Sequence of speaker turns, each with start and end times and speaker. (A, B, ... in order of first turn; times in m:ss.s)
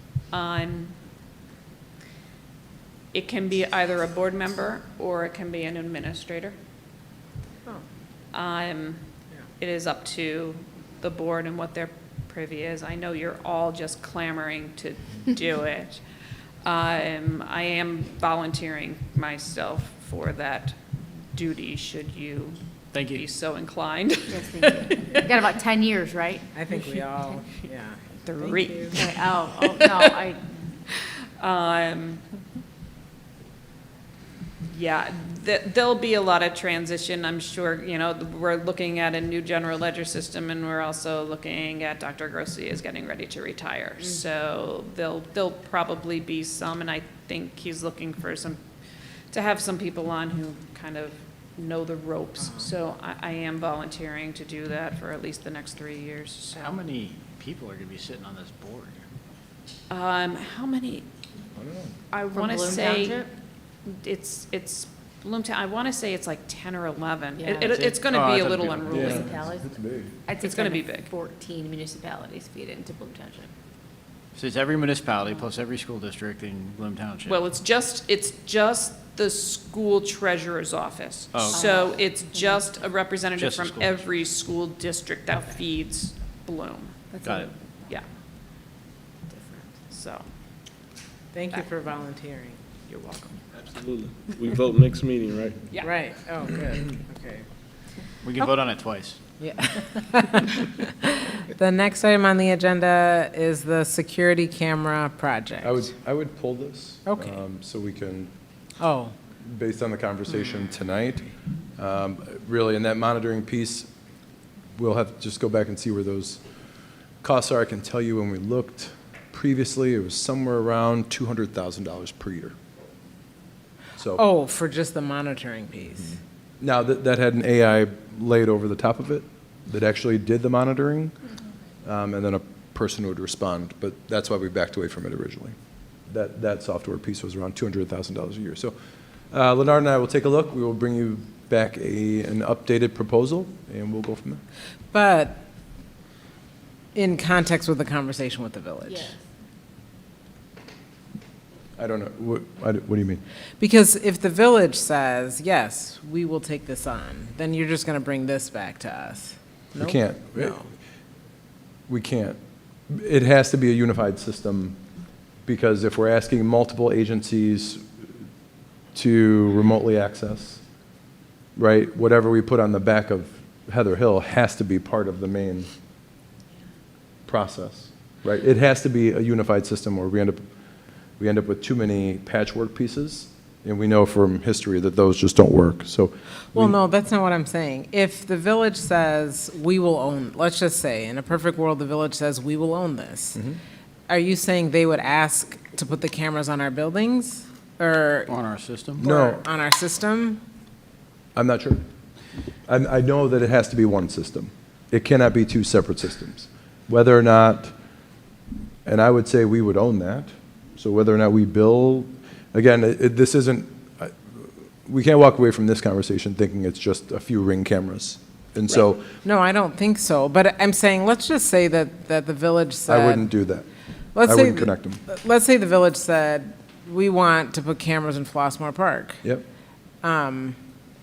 0:00.3-0:00.9 A
0:03.1-0:06.6 A
0:08.3-0:09.0 A
0:09.6-0:16.0 A
0:16.6-0:20.8 A
0:21.3-0:25.3 A
0:22.9-0:23.2 B
0:24.3-0:26.5 C
0:26.5-0:29.0 D
0:28.2-0:30.2 A
0:29.0-0:30.4 C
0:31.4-0:32.2 A
0:34.7-0:48.6 A
0:49.3-0:56.8 A
0:56.6-0:59.0 B
0:59.9-1:01.0 A
1:01.6-1:01.9 E
1:02.1-1:03.2 A
1:02.2-1:03.3 C
1:03.8-1:09.3 A
1:07.4-1:07.9 C
1:08.1-1:09.3 B
1:08.9-1:10.1 E
1:09.0-1:09.8 C
1:10.3-1:13.5 C
1:10.4-1:11.1 A
1:14.3-1:17.4 B
1:17.2-1:28.0 A
1:21.3-1:21.6 B
1:21.5-1:22.6 C
1:23.4-1:24.1 B
1:27.2-1:27.5 B
1:29.9-1:30.2 A
1:31.3-1:32.6 D
1:32.9-1:33.4 A
1:33.6-1:35.6 F
1:35.8-1:37.4 D
1:38.2-1:39.2 B
1:39.4-1:45.9 D
1:45.6-1:48.3 E
1:47.0-1:47.4 D
1:48.8-1:49.1 D
1:49.4-1:53.9 E
1:54.8-1:56.4 E
1:57.2-2:02.5 E
2:04.0-2:04.2 E
2:04.2-2:06.2 D
2:06.6-2:11.1 E
2:11.8-2:15.5 E
2:16.1-2:18.7 E
2:19.3-2:24.4 E
2:24.9-2:25.4 D
2:26.9-2:29.1 D
2:28.9-2:29.2 C
2:31.8-2:33.2 E
2:33.6-2:40.6 D
2:39.8-2:40.6 E
2:41.9-2:42.4 E
2:42.9-2:44.8 E
2:45.4-2:47.9 E
2:48.9-2:50.6 E
2:51.6-2:55.7 E
2:57.3-3:00.4 E
3:01.2-3:06.8 E
3:06.5-3:13.4 D
3:14.1-3:18.3 D
3:18.3-3:19.0 B
3:19.0-3:19.4 E
3:19.0-3:20.4 D
3:21.3-3:21.8 E
3:22.7-3:27.7 E
3:28.8-3:39.1 E
3:38.7-3:43.3 D
3:42.9-3:43.6 E
3:44.1-3:49.2 D
3:44.2-3:45.0 E
3:50.0-3:50.6 D